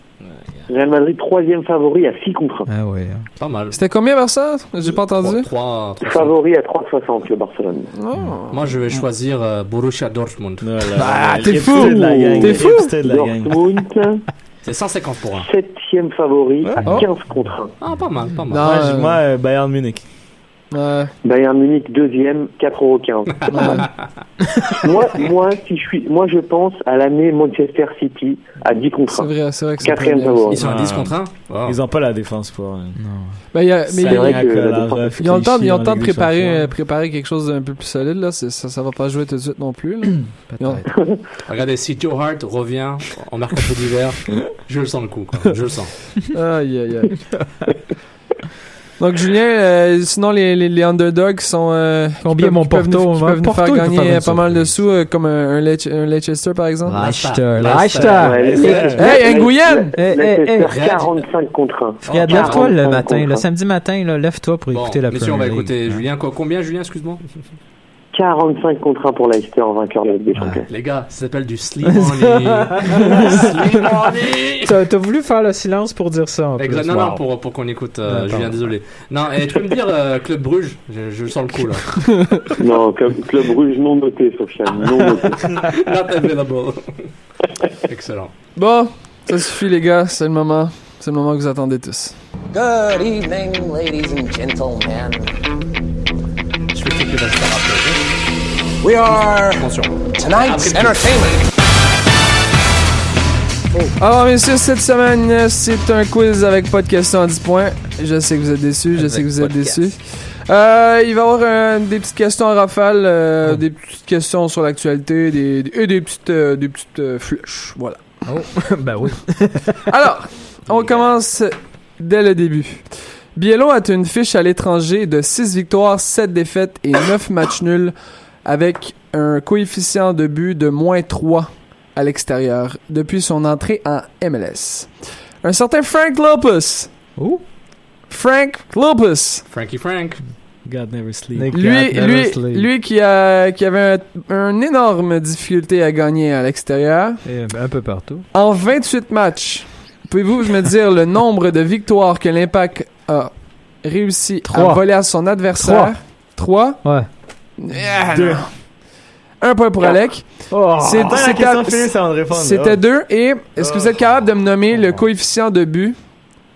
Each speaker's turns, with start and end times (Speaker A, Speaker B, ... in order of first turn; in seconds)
Speaker A: 0.2-0.6, 10.6-13.6, 16.6-17.1, 18.6-20.0, 30.6-33.0, 33.9-36.6, 58.4-59.2, 140.6-141.5, 158.1-158.5, 161.0-162.9, 163.6-164.1
Speaker B: 0.7-2.7, 6.0-7.9, 12.3-14.2, 15.4-17.7, 21.2-23.9, 24.7-30.6, 34.0-35.2, 57.9-63.5, 68.1-70.7, 82.6-85.5
Speaker C: 2.7-3.3, 11.0-11.8, 24.5-24.8, 33.0-33.4, 40.5-40.9, 52.2-54.7, 56.9-58.6, 59.9-60.7, 62.0-66.0, 70.3-70.6, 72.0-73.5, 74.6-77.2, 78.1-78.7, 109.0-109.8, 118.3-119.8, 137.2-137.4, 141.3-142.7, 147.2-148.2, 154.5-156.0, 156.8-157.1, 160.5-161.2
Speaker D: 3.4-3.8, 5.1-6.3, 8.5-11.2, 14.6-15.5, 17.8-18.9, 30.5-31.8, 41.5-46.0, 57.0-59.0, 60.6-61.2, 62.0-62.7, 64.7-67.2, 70.7-74.7, 76.6-82.1, 85.0-87.1, 87.8-88.3, 96.7-98.0, 99.0-101.1, 120.7-121.0, 139.5-140.2
Speaker E: 3.7-5.5, 7.9-9.0, 11.0-13.0, 18.5-19.2, 20.7-21.1, 23.5-23.9, 29.1-30.6, 33.5-34.5, 35.2-40.8, 46.3-47.2, 49.0-57.1, 58.9-60.0, 88.5-92.2, 104.0-118.3, 119.8-136.9, 138.1-139.4, 141.5-147.2, 148.3-158.6, 159.4-166.1
Speaker F: 92.5-95.2, 98.8-99.4, 100.2-101.3